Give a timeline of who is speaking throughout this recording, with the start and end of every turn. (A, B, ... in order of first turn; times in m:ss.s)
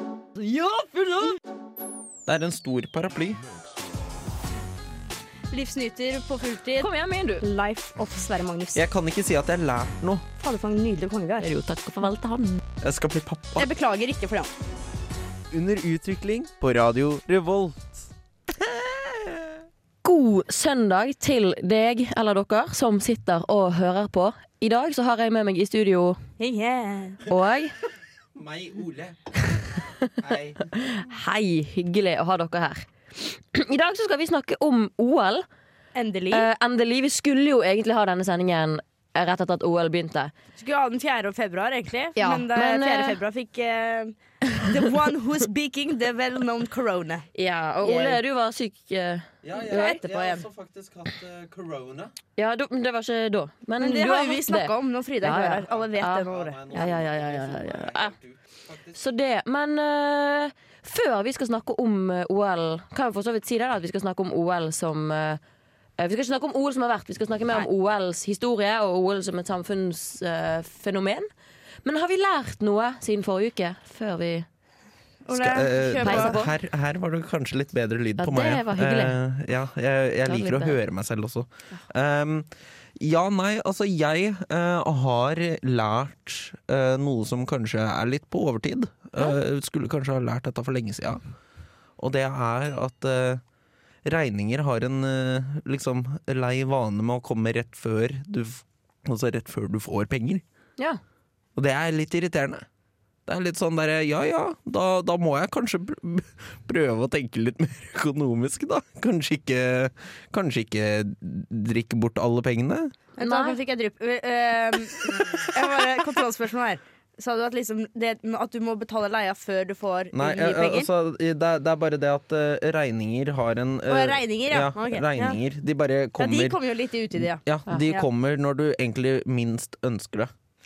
0:00.4-0:01.2 A
0:02.2-0:03.4 B
0:05.5-0:08.8 C
0:06.8-0:07.4 A
0:08.7-0:10.2 B
0:10.4-0:11.5 C
0:11.4-0:12.6 A
0:12.8-0:13.7 B
0:13.6-0:14.5 C
0:15.5-0:19.6 B
0:20.0-0:26.2 A
0:26.4-0:27.2 C
0:27.3-0:27.7 A
0:28.3-0:29.6 B
0:30.2-0:30.6 B
0:30.8-0:35.4 A
0:35.9-0:36.5 C
0:36.3-0:40.3 A
0:40.6-0:47.3 C
0:42.2-0:43.2 A
0:47.3-0:50.4 A
0:47.8-0:48.2 C
0:49.4-0:52.1 B
0:49.7-0:50.4 C
0:52.4-0:58.1 A
0:53.8-0:56.9 C
0:55.7-0:59.0 B
0:58.9-1:05.4 A
1:06.0-1:11.3 A
1:11.8-1:14.5 A
1:15.2-1:16.4 C
1:15.3-1:31.2 B
1:16.0-1:16.5 A
1:18.2-1:19.2 A
1:20.2-1:20.8 A
1:32.0-1:33.4 B
1:34.0-1:40.4 B
1:41.6-1:42.6 B
1:43.2-1:52.9 B
1:53.2-2:00.9 C
1:53.2-1:53.6 A
2:00.1-2:06.6 B
2:03.9-2:05.4 C
2:06.2-2:08.0 C
2:07.2-2:10.3 B